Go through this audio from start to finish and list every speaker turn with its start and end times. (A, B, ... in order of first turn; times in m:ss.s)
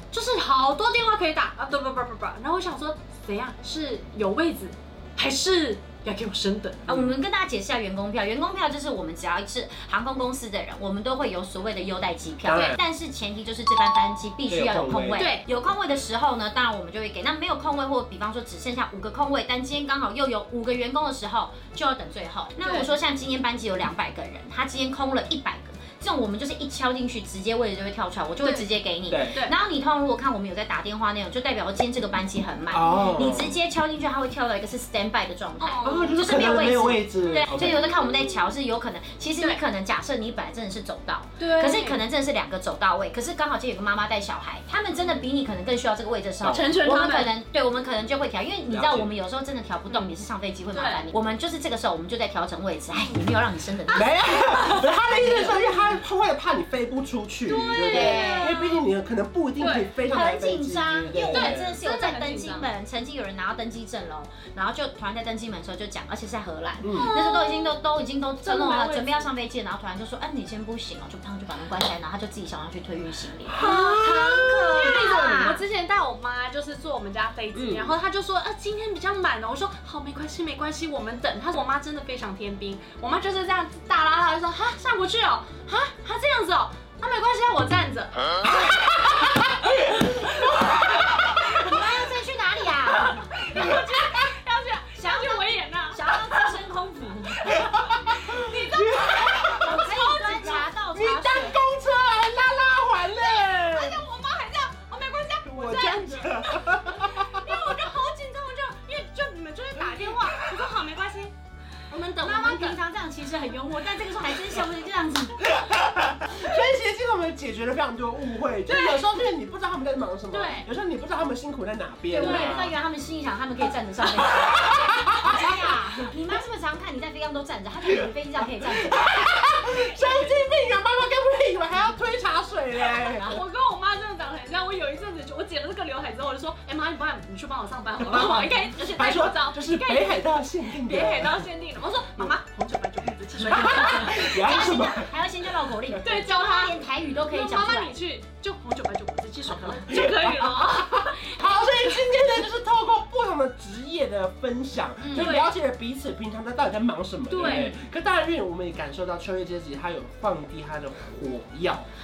0:00.1-0:06.9 A
0:06.9-0:54.1 B
0:06.9-0:07.2 C
0:12.4-0:12.8 C
0:14.5-0:15.3 C
0:15.1-0:15.5 A
0:22.6-0:22.9 A
0:28.4-0:28.7 A
0:29.1-0:29.4 C
0:32.7-0:33.5 C
0:32.9-0:33.3 A
0:35.6-0:36.2 A
0:35.8-0:37.9 C
0:37.3-0:37.5 A
0:41.4-0:42.0 A
0:44.9-0:45.2 A
0:46.4-0:46.7 C
0:46.5-0:47.3 A
0:48.7-0:49.1 C
0:50.7-0:51.1 A
0:53.0-0:53.2 A
0:53.9-1:01.8 C
0:54.4-0:55.8 A
0:57.4-0:58.8 A
0:57.9-0:58.6 B
0:59.6-0:59.9 A
1:00.0-1:15.6 B
1:01.1-1:02.7 A
1:06.8-1:07.1 C
1:06.9-1:07.8 A
1:08.4-1:09.3 A
1:13.5-1:15.5 C
1:13.6-1:28.5 A
1:17.5-1:18.0 C
1:29.6-1:32.1 A
1:31.4-1:33.7 B
1:32.9-1:36.5 A
1:33.5-1:33.9 C
1:35.0-1:37.6 B
1:37.4-1:40.7 A
1:37.5-1:39.9 C
1:39.6-1:41.6 B
1:40.9-1:44.0 C
1:43.1-1:51.3 A
1:45.4-1:47.7 C
1:49.8-1:50.7 C
1:51.9-1:52.8 A
1:52.0-1:55.5 B
1:55.5-2:02.7 C
1:58.7-1:59.0 A
2:00.3-2:00.7 A
2:02.1-2:09.1 B
2:02.1-2:02.6 A
2:04.2-2:05.8 C
2:08.6-2:13.4 C
2:12.8-2:24.3 A
2:18.0-2:21.5 C
2:23.4-2:25.2 C
2:23.6-2:28.0 B
2:26.0-2:32.0 A
2:29.7-2:41.9 C
2:35.0-2:35.5 A
2:37.3-2:37.8 A
2:37.4-2:37.7 B